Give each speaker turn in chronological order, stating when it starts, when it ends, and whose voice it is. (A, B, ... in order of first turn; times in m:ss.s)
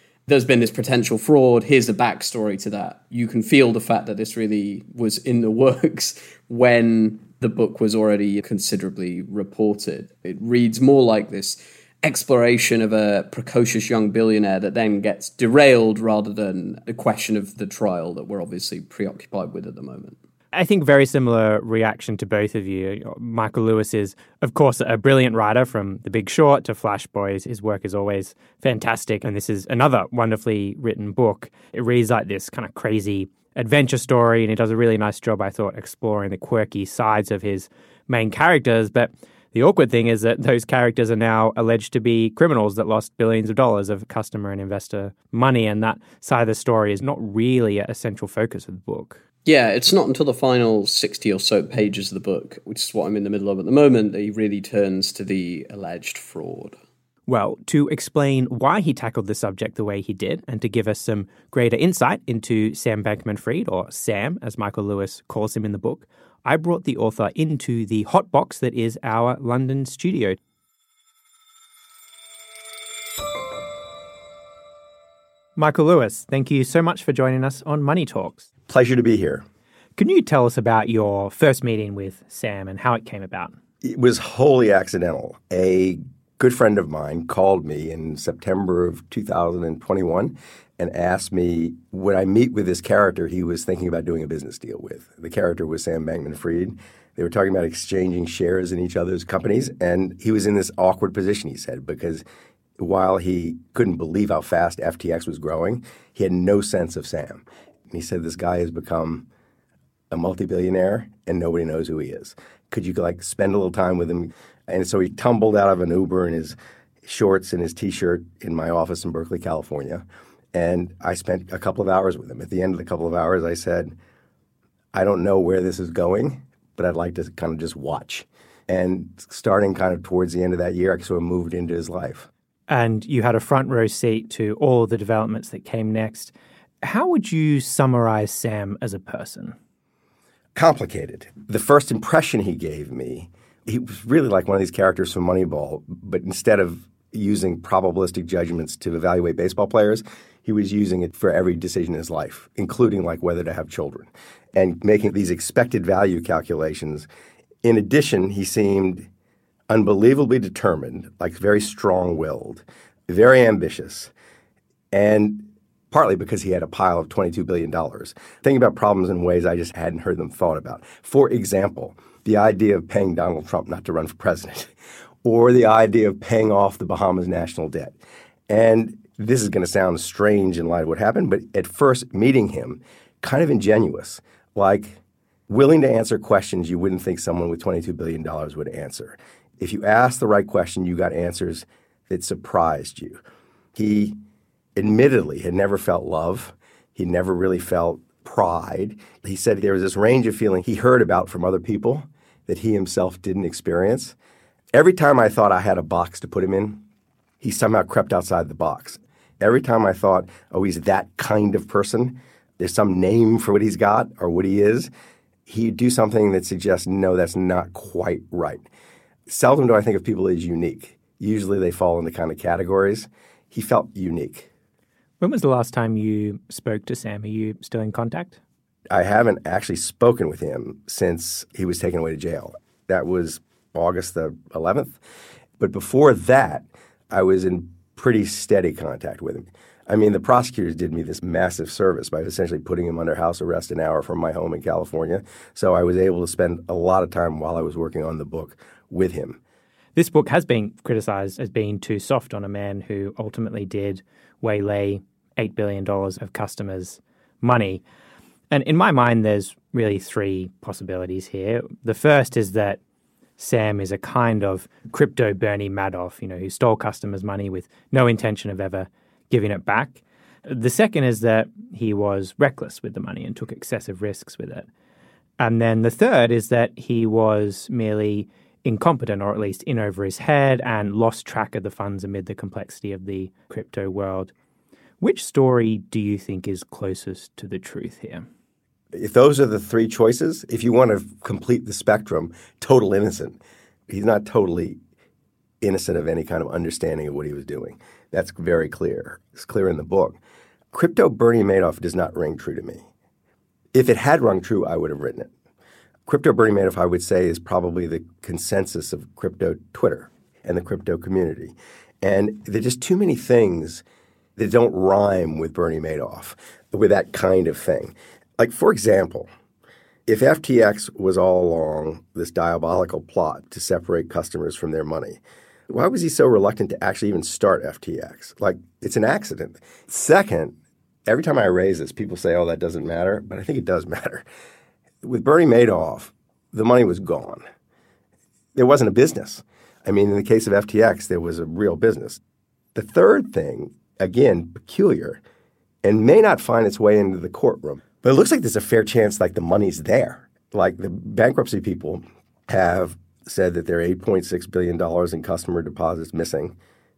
0:00.3-0:20.2 A
0:20.5-0:49.2 B
0:49.4-0:56.8 A
0:57.3-1:10.4 B
1:15.6-1:18.4 B
1:18.7-1:19.4 C
1:20.0-1:23.5 B
1:23.8-1:42.2 C
1:42.8-1:49.3 C
1:50.1-2:03.9 C
2:04.9-2:12.3 C
2:12.7-2:19.5 B
2:20.5-2:37.1 C
2:37.6-2:39.1 C
2:39.7-2:44.1 C
2:44.9-2:54.7 C
2:55.2-2:58.0 C
2:58.5-3:13.2 C
3:13.7-3:14.2 C
3:14.8-3:24.2 C
3:24.7-3:26.8 C
3:27.4-3:34.9 C
3:35.5-3:38.6 C
3:39.3-3:44.5 C
3:45.2-3:48.4 B
3:48.9-3:55.0 C
3:55.6-4:09.4 C
4:10.0-4:17.8 B
4:18.5-4:22.8 B
4:23.4-4:34.6 B
4:35.4-4:44.3 B
4:45.0-4:48.2 B
4:48.9-4:54.8 C
4:55.6-5:00.2 C
5:00.7-5:02.8 C
5:03.7-5:05.3 C
5:06.1-5:13.8 C
5:14.4-5:19.3 C
5:20.0-5:30.6 C
5:31.1-5:34.2 C
5:35.0-5:37.4 C
5:38.5-5:42.2 C
5:42.7-5:45.2 C
5:45.8-5:56.6 C